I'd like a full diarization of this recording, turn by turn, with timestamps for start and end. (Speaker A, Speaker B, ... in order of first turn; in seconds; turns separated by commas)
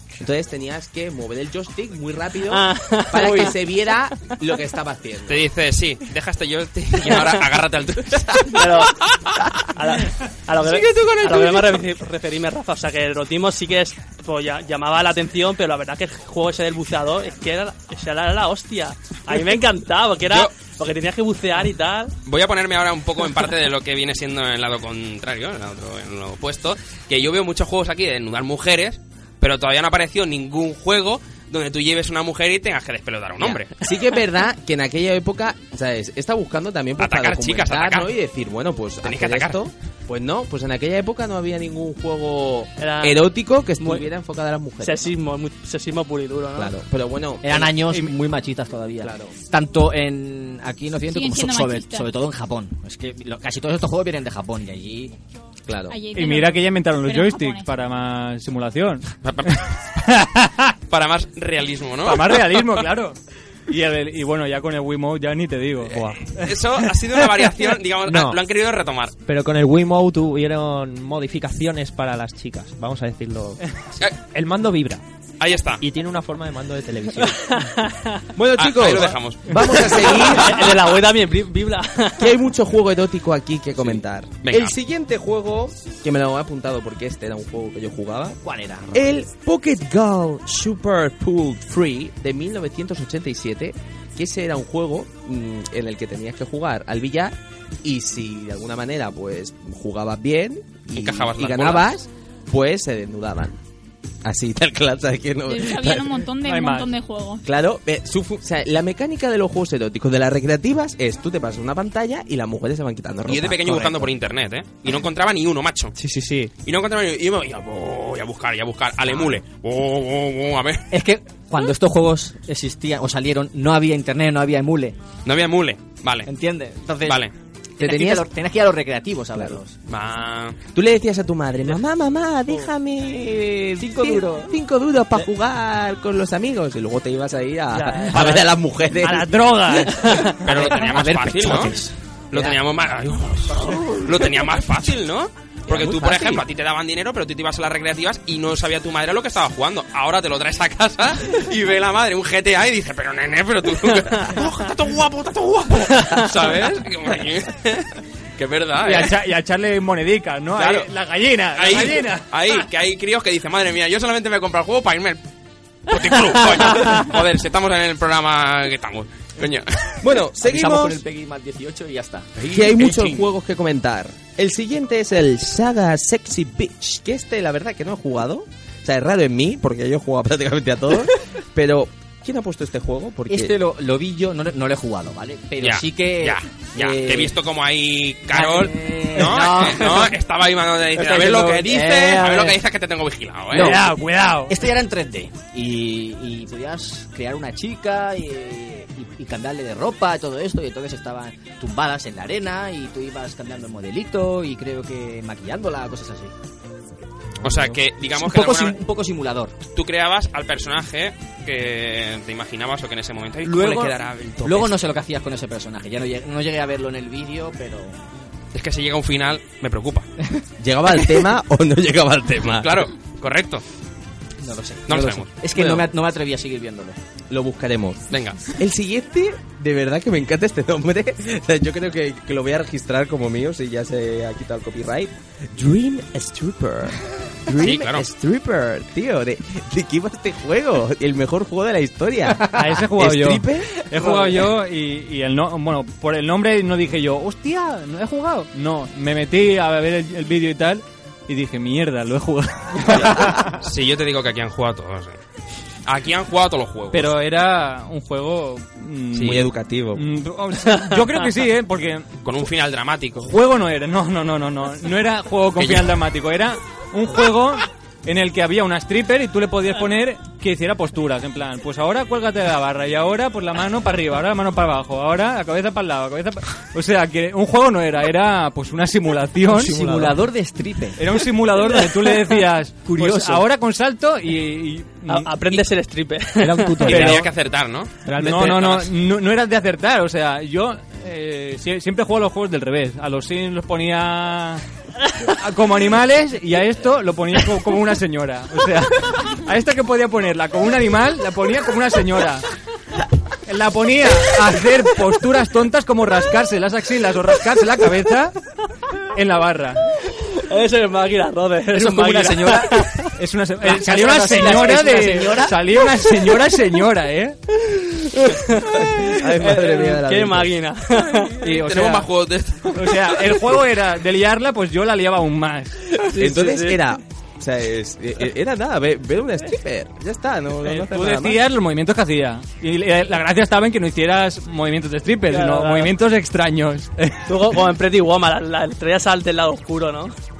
Speaker A: 0.2-5.5, Speaker B: 2.5-3.6, Speaker C: 5.3-9.5, Speaker B: 8.5-8.9, Speaker B: 9.7-22.1, Speaker C: 10.6-11.8, Speaker C: 20.2-20.5, Speaker C: 22.2-33.7, Speaker A: 33.4-45.1, Speaker C: 37.0-38.1, Speaker C: 39.0-39.6, Speaker B: 42.8-44.0, Speaker B: 44.8-46.8, Speaker A: 46.5-47.7, Speaker D: 47.4-55.1, Speaker A: 49.0-49.3, Speaker E: 51.1-52.1, Speaker A: 55.6-56.0, Speaker E: 55.9-57.7, Speaker F: 56.1-60.8, Speaker C: 59.2-59.8, Speaker C: 60.9-62.8, Speaker F: 62.0-66.6, Speaker G: 65.9-66.2, Speaker C: 66.0-69.1, Speaker G: 68.0-68.4, Speaker G: 69.2-75.0, Speaker C: 75.4-75.8, Speaker G: 75.8-77.4, Speaker B: 77.4-78.3, Speaker A: 78.3-80.7, Speaker C: 78.6-80.2, Speaker B: 80.2-82.3, Speaker A: 82.2-88.4, Speaker C: 84.4-84.8, Speaker D: 88.4-89.1, Speaker A: 88.9-103.6, Speaker C: 100.9-101.9, Speaker A: 104.2-106.2, Speaker E: 105.5-107.5, Speaker F: 106.4-106.9, Speaker A: 107.4-114.1, Speaker C: 113.3-116.0, Speaker G: 116.0-116.5, Speaker C: 116.6-120.9, Speaker D: 120.9-125.0, Speaker C: 125.2-126.3, Speaker D: 126.2-127.2, Speaker C: 127.0-127.3, Speaker A: 127.8-128.2, Speaker D: 127.8-129.7, Speaker C: 129.9-130.6, Speaker A: 130.7-140.2, Speaker D: 133.8-134.5, Speaker B: 137.7-140.4, Speaker C: 140.4-141.8, Speaker D: 140.4-141.9, Speaker C: 142.3-159.2, Speaker A: 142.3-142.6, Speaker A: 143.6-144.1, Speaker A: 145.7-146.4, Speaker B: 155.9-156.3, Speaker F: 158.8-162.3, Speaker C: 160.6-160.9, Speaker C: 161.6-165.2, Speaker C: 165.9-170.1, Speaker B: 166.7-166.9, Speaker A: 170.0-171.0, Speaker D: 170.4-172.3, Speaker C: 172.4-173.3, Speaker A: 172.4-183.6, Speaker D: 183.3-187.3, Speaker C: 185.6-193.8, Speaker D: 188.3-190.2, Speaker D: 190.9-192.6, Speaker D: 193.5-193.9, Speaker F: 193.6-194.5, Speaker D: 194.5-206.3, Speaker C: 207.4-208.8, Speaker D: 208.1-209.5, Speaker C: 209.7-214.7, Speaker D: 213.4-218.1, Speaker C: 218.5-220.1, Speaker A: 220.6-222.8, Speaker C: 222.6-223.6, Speaker D: 224.4-227.0, Speaker C: 224.9-225.3, Speaker A: 225.5-225.8, Speaker A: 227.3-243.8, Speaker C: 228.1-228.4, Speaker C: 237.6-238.1, Speaker F: 242.5-253.6, Speaker C: 253.6-255.2, Speaker C: 255.8-257.1, Speaker F: 256.9-262.1, Speaker A: 259.1-260.0, Speaker C: 262.2-263.3, Speaker F: 263.2-279.7, Speaker C: 265.6-265.9, Speaker D: 279.5-281.2, Speaker G: 279.6-280.2, Speaker F: 281.0-285.6, Speaker D: 282.8-283.4, Speaker B: 285.1-287.0, Speaker G: 286.4-287.3, Speaker C: 286.9-288.9, Speaker F: 286.9-287.2, Speaker G: 288.1-288.7, Speaker F: 288.2-294.6, Speaker F: 295.3-302.4, Speaker F: 303.4-308.4, Speaker F: 309.1-309.8, Speaker B: 310.3-313.1, Speaker D: 311.7-312.9, Speaker F: 313.1-317.4, Speaker D: 313.6-315.6, Speaker B: 318.3-321.4, Speaker A: 318.6-320.5, Speaker F: 321.4-322.1, Speaker C: 321.4-323.4, Speaker F: 322.7-325.8, Speaker B: 326.1-326.8, Speaker A: 326.1-331.4, Speaker F: 330.6-337.4, Speaker B: 335.3-335.9, Speaker B: 337.3-340.1